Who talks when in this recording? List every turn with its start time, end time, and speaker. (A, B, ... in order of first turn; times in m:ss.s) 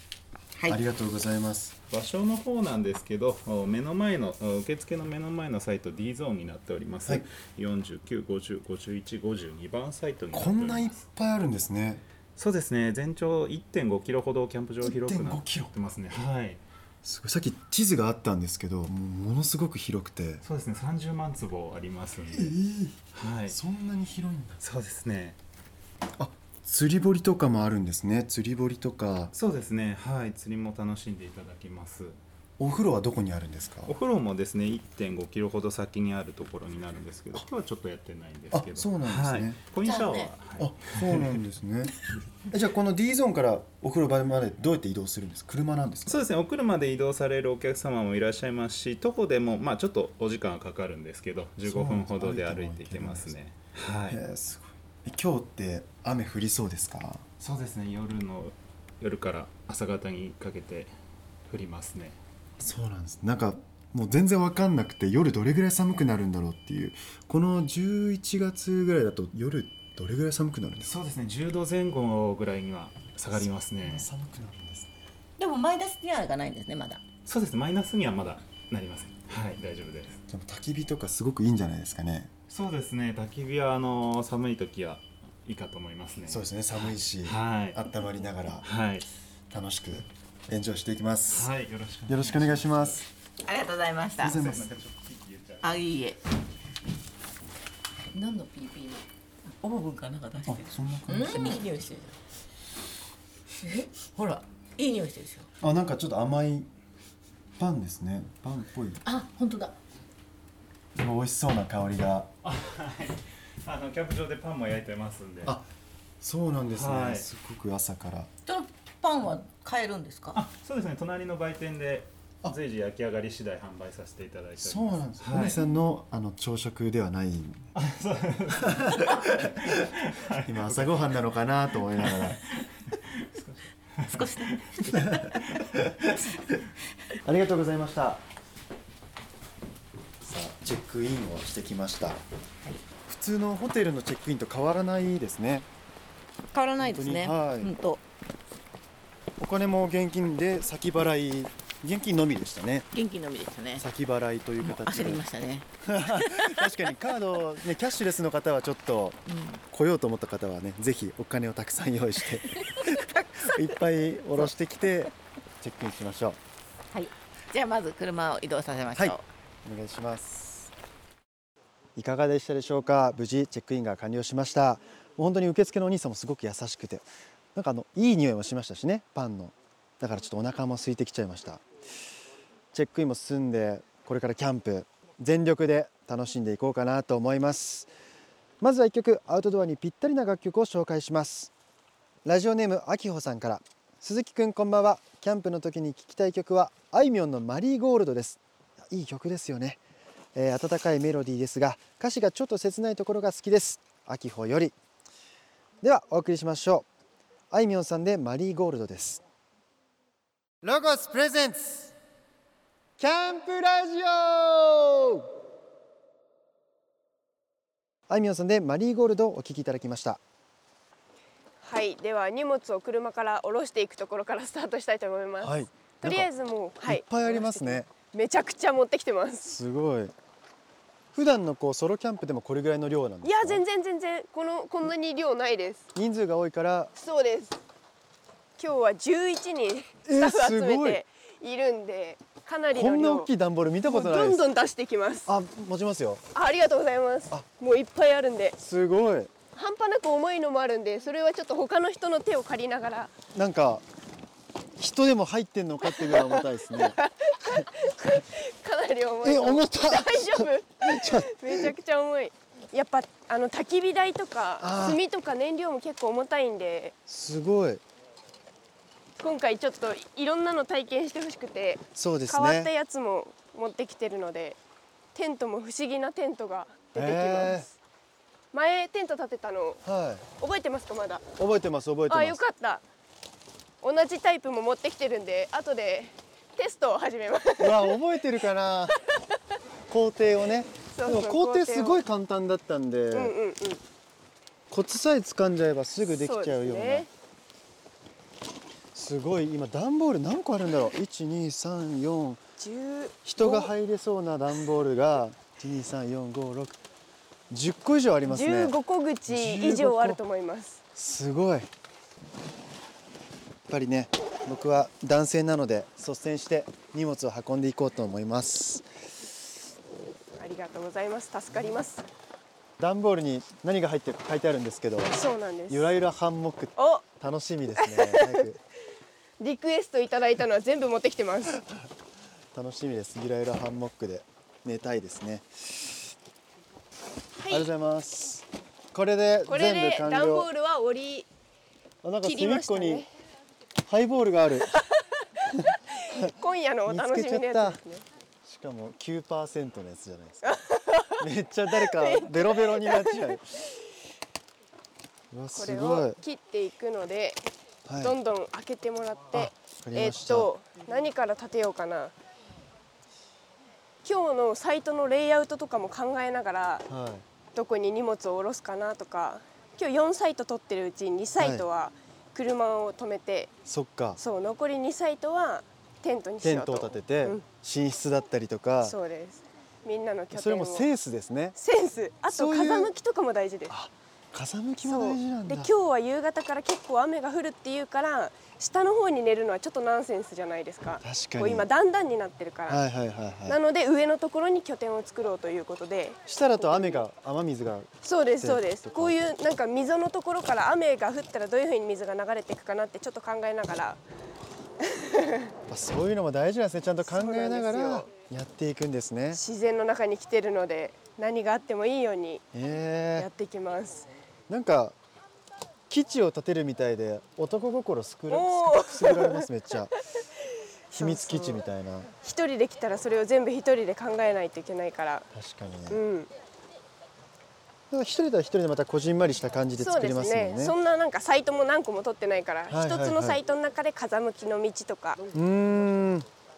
0:00.7-0:01.8 A
0:01.9-0:11.0 B
0:10.3-0:12.0 A
0:12.4-0:16.6 B
0:14.8-0:15.7 A
0:17.0-0:20.4 A
0:20.4-0:22.6 B
0:22.3-0:24.6 A
0:23.1-0:23.6 B
0:24.6-0:25.4 B
0:26.2-0:29.3 A
0:29.3-0:32.2 B
0:32.6-0:33.9 A
0:33.9-0:41.4 B
0:38.5-0:39.6 A
0:39.8-0:40.3 C
0:40.6-0:42.0 A
0:42.5-0:46.2 A
0:46.1-0:54.2 B
0:51.6-0:53.3 A
0:54.1-0:57.2 A
0:57.4-1:00.9 B
1:01.5-1:02.2 B
1:02.6-1:10.9 A
1:10.8-1:14.1 B
1:13.8-1:15.0 A
1:15.4-1:17.0 C
1:17.3-1:20.2 B
1:20.3-1:22.3 A
1:22.5-1:27.8 B
1:26.3-1:28.7 A
1:28.6-1:29.1 B
1:29.5-1:31.5 A
1:31.3-1:33.1 B
1:32.1-1:33.0 A
1:33.4-1:34.4 C
1:34.2-1:34.7 A
1:34.2-1:35.8 B
1:35.6-1:36.2 C
1:38.1-1:42.2 C
1:40.5-1:41.8 A
1:43.6-1:45.5 C
1:45.6-1:46.7 A
1:47.6-1:49.0 A
1:49.0-1:49.8 C
1:51.0-1:52.3 A
1:52.4-1:55.6 B
1:56.2-1:58.3 A
1:56.7-1:57.3 B
1:58.4-2:00.4 C
2:00.3-2:05.6 B
2:04.6-2:07.7 A
2:07.8-2:11.2 B
2:08.5-2:09.9 A
2:10.4-2:12.4 A
2:12.0-2:15.7 B
2:14.0-2:15.6 C
2:14.9-2:16.5 A
2:17.2-2:18.2 A
2:20.2-2:22.2 A
2:23.0-2:25.7 A
2:26.5-2:28.0 C
2:26.8-2:27.8 A
2:29.4-2:32.9 A
2:32.9-2:33.8 C
2:33.8-2:35.2 A
2:34.6-2:36.7 C
2:35.8-2:39.2 A
2:39.3-2:39.6 C
2:39.7-2:46.4 A
2:42.6-2:43.4 C
2:46.9-2:49.2 C
2:48.9-2:50.7 A
2:52.0-3:01.6 A
3:02.7-3:07.9 A
3:08.6-3:11.5 A
3:12.2-3:19.8 A
3:20.3-3:24.8 A
3:25.8-3:26.8 A
3:27.5-3:29.2 A
3:30.6-3:31.9 A
3:33.0-3:35.3 A
3:38.1-3:40.2 A
3:41.6-3:49.5 D
3:45.4-3:46.3 A
3:46.8-3:47.9 A
3:49.4-3:50.1 A
3:51.1-3:53.6 A
3:53.2-3:55.8 D
3:56.0-3:56.9 A
3:57.0-3:57.6 D
3:58.6-4:03.3 D
4:00.0-4:01.0 A
4:02.7-4:04.4 A
4:03.9-4:05.3 D
4:05.3-4:06.2 A
4:06.3-4:08.6 D
4:08.6-4:09.3 A
4:09.5-4:13.1 D
4:13.3-4:13.8 A
4:14.8-4:17.0 A
4:15.8-4:27.0 D
4:19.2-4:21.7 A
4:24.6-4:25.0 A
4:27.1-4:27.8 A
4:29.2-4:34.6 D
4:32.0-4:32.7 A
4:35.1-4:37.8 D
4:37.0-4:37.7 A
4:38.5-4:39.8 D
4:39.8-4:40.2 A
4:40.4-4:41.2 D
4:41.4-4:42.4 A
4:42.1-4:42.8 D
4:43.8-4:48.0 D
4:47.6-4:49.0 A
4:49.9-4:53.4 A
4:50.9-4:52.0 D
4:53.1-4:53.8 D
4:54.7-4:57.1 A
4:56.0-4:57.1 D
4:58.9-5:02.4 A
5:02.6-5:03.7 D
5:03.2-5:06.8 A
5:07.5-5:08.8 A
5:08.3-5:10.8 D
5:09.3-5:10.2 A
5:11.0-5:11.7 A
5:13.7-5:18.9 A
5:20.4-5:22.0 D
5:22.8-5:25.2 A
5:25.1-5:25.9 D
5:25.7-5:28.6 A
5:26.8-5:27.0 D
5:27.8-5:28.5 D
5:29.4-5:31.6 D
5:32.5-5:35.9 A
5:37.4-5:37.7 D
5:37.5-5:40.5 A
5:39.5-5:41.3 D
5:42.0-5:43.0 A
5:42.2-5:43.1 D
5:43.9-5:44.7 A
5:44.7-5:48.0 D
5:46.1-5:46.3 A
5:46.9-5:47.8 A
5:48.4-5:50.5 A
5:50.4-5:53.4 D
5:51.2-5:53.4 A
5:55.3-5:56.2 A
5:55.5-5:57.4 D
5:57.9-5:58.2 A
5:58.0-6:02.1 D
5:59.3-6:00.5 A
6:04.0-6:06.9 D
6:06.9-6:07.2 A
6:07.5-6:13.5 D
6:11.4-6:11.6 A
6:13.6-6:14.2 A
6:14.2-6:17.4 D
6:16.4-6:19.0 A
6:18.8-6:20.9 D
6:20.3-6:21.6 A
6:21.6-6:23.7 D
6:22.3-6:22.9 A
6:23.7-6:25.7 A
6:24.8-6:32.8 D
6:31.0-6:31.7 A
6:32.7-6:33.6 A
6:33.4-6:37.0 D
6:36.2-6:39.2 A
6:38.0-6:44.0 D
6:44.8-6:45.5 D
6:45.7-6:49.4 A
6:47.0-6:48.1 D
6:49.3-6:52.4 D
6:52.5-6:53.3 A
6:53.2-6:54.1 D
6:54.5-6:55.0 A
6:55.9-6:59.9 A
6:58.3-6:59.4 D
7:00.9-7:01.6 D
7:00.9-7:02.1 A
7:02.2-7:05.3 D
7:05.3-7:06.0 A
7:05.9-7:06.3 D
7:07.9-7:10.8 A
7:09.8-7:15.2 D
7:12.7-7:13.4 A
7:15.3-7:16.2 A